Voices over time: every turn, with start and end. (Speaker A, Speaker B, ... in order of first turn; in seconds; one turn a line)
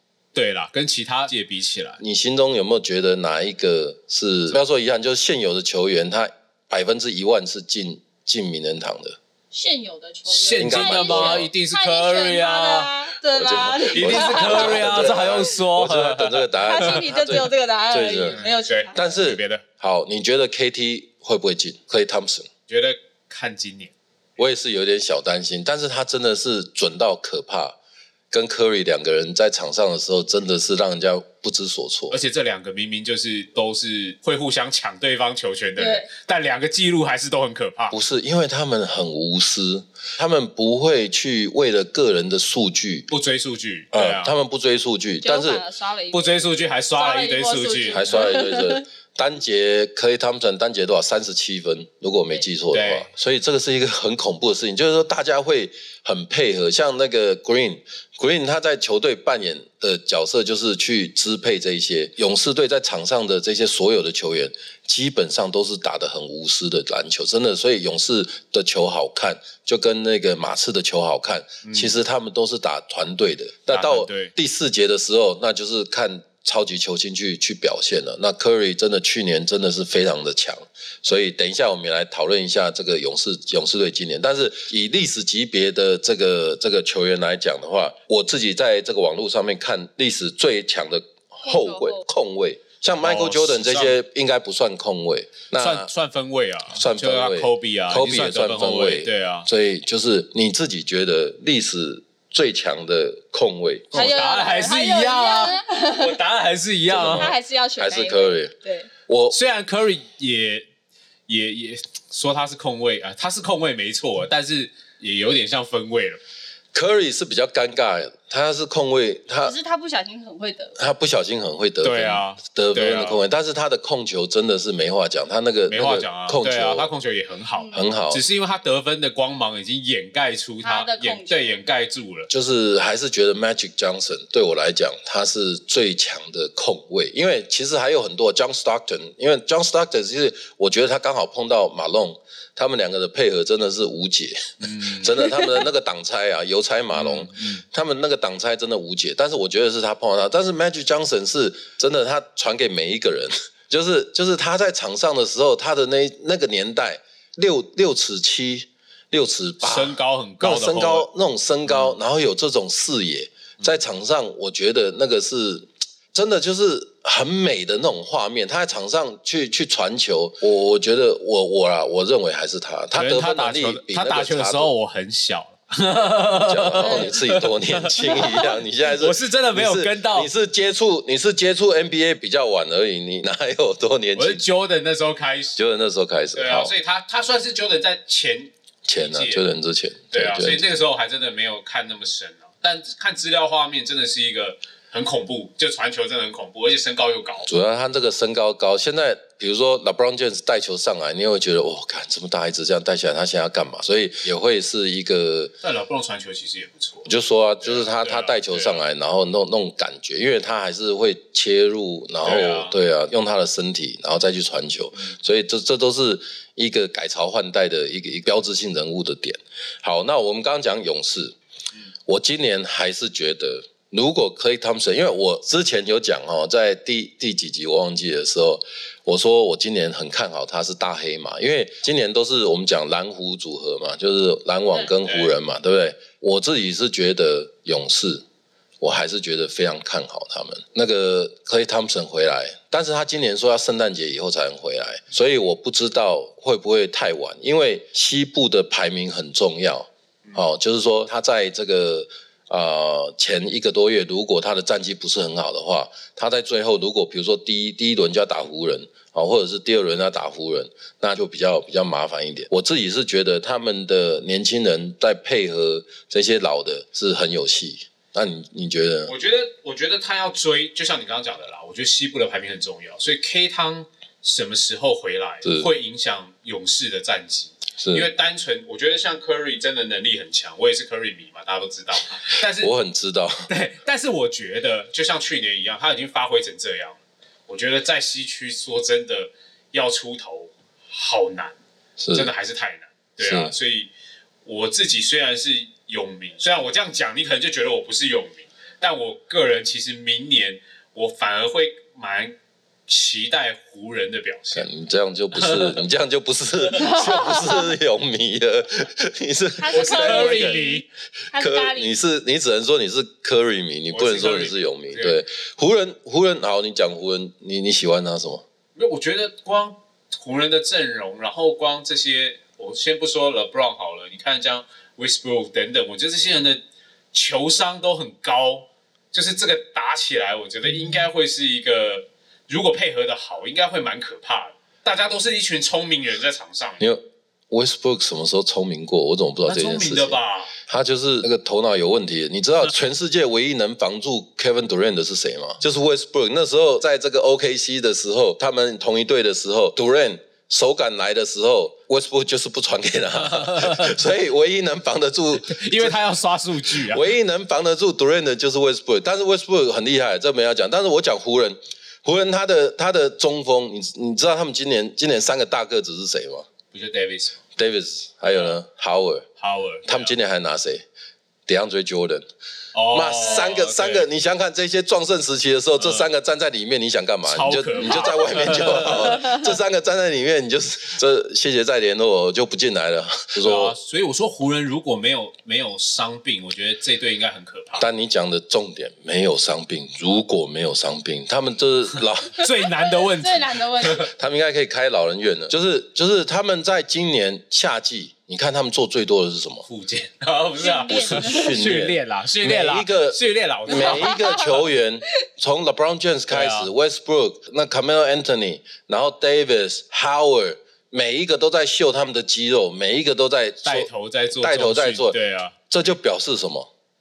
Speaker A: 0.3-2.0
Speaker B: 2.0-9.2
Speaker C: 9.5-15.4
Speaker A: 10.3-12.9
Speaker B: 10.6-11.5
Speaker B: 13.3-18.4
Speaker A: 13.8-17.3
Speaker C: 16.6-19.1
Speaker A: 18.3-19.6
Speaker B: 18.9-22.5
Speaker A: 22.7-23.9
Speaker B: 24.4-27.8
Speaker B: 28.3-32.2
Speaker A: 32.1-38.0
Speaker C: 35.8-36.1
Speaker B: 37.9-43.1
Speaker A: 43.1-44.3
Speaker B: 43.9-45.6
Speaker C: 45.2-46.4
Speaker A: 46.1-48.2
Speaker C: 46.9-48.8
Speaker B: 47.9-95.9
Speaker A: 52.7-53.1
Speaker A: 71.6-72.0
Speaker A: 73.7-74.3
Speaker C: 91.4-92.0
Speaker A: 93.0-94.0
Speaker A: 95.6-99.5
Speaker B: 96.7-104.1
Speaker C: 103.9-106.2
Speaker A: 103.9-107.3
Speaker B: 106.9-108.5
Speaker C: 107.1-108.9
Speaker B: 109.1-109.3
Speaker A: 109.3-110.7
Speaker A: 111.3-116.2
Speaker B: 116.7-119.5
Speaker C: 119.4-120.7
Speaker B: 120.8-126.9
Speaker A: 121.8-123.2
Speaker A: 125.7-132.3
Speaker C: 127.5-127.8
Speaker B: 127.7-128.2
Speaker C: 130.6-131.6
Speaker B: 132.3-174.7
Speaker A: 144.6-145.4
Speaker A: 146.9-147.6
Speaker A: 159.6-161.1
Speaker A: 161.7-162.0
Speaker A: 172.9-180.3
Speaker B: 176.3-184.4
Speaker C: 176.8-177.2
Speaker A: 184.2-185.6
Speaker B: 185.6-186.7
Speaker A: 186.3-189.4
Speaker B: 188.8-190.6
Speaker A: 190.1-197.5
Speaker B: 197.4-205.5
Speaker A: 205.6-207.1
Speaker B: 207.0-221.3
Speaker A: 207.6-208.8
Speaker A: 212.2-212.8
Speaker B: 222.1-238.2
Speaker A: 235.0-235.3
Speaker B: 238.8-269.1
Speaker A: 269.0-282.7
Speaker B: 275.4-275.7
Speaker B: 277.8-278.1
Speaker B: 282.4-283.5
Speaker A: 283.5-291.6
Speaker B: 292.0-292.3
Speaker A: 292.1-293.9
Speaker B: 293.2-293.5
Speaker A: 294.4-302.3
Speaker A: 302.9-304.7
Speaker B: 304.5-310.6
Speaker A: 305.3-305.8
Speaker C: 306.8-307.7
Speaker C: 309.6-311.9
Speaker A: 309.7-310.8
Speaker B: 311.3-318.4
Speaker A: 313.9-315.2
Speaker A: 318.8-336.8
Speaker B: 336.8-356.0
Speaker A: 339.4-340.5
Speaker A: 353.3-353.9
Speaker A: 355.4-357.1
Speaker B: 356.6-366.5
Speaker A: 366.7-367.4
Speaker B: 367.6-369.2
Speaker A: 369.4-370.1
Speaker B: 369.8-370.8
Speaker B: 371.5-372.3
Speaker A: 372.7-374.1
Speaker B: 372.9-383.8
Speaker A: 375.8-376.1
Speaker A: 377.2-379.3
Speaker A: 383.4-387.9
Speaker B: 387.8-392.5
Speaker A: 392.4-394.0
Speaker C: 392.8-394.1
Speaker B: 393.9-399.7
Speaker A: 399.7-404.1
Speaker C: 400.6-401.6
Speaker B: 400.9-415.2
Speaker C: 403.7-404.6
Speaker A: 406.3-406.7
Speaker A: 413.6-415.6
Speaker B: 415.7-416.7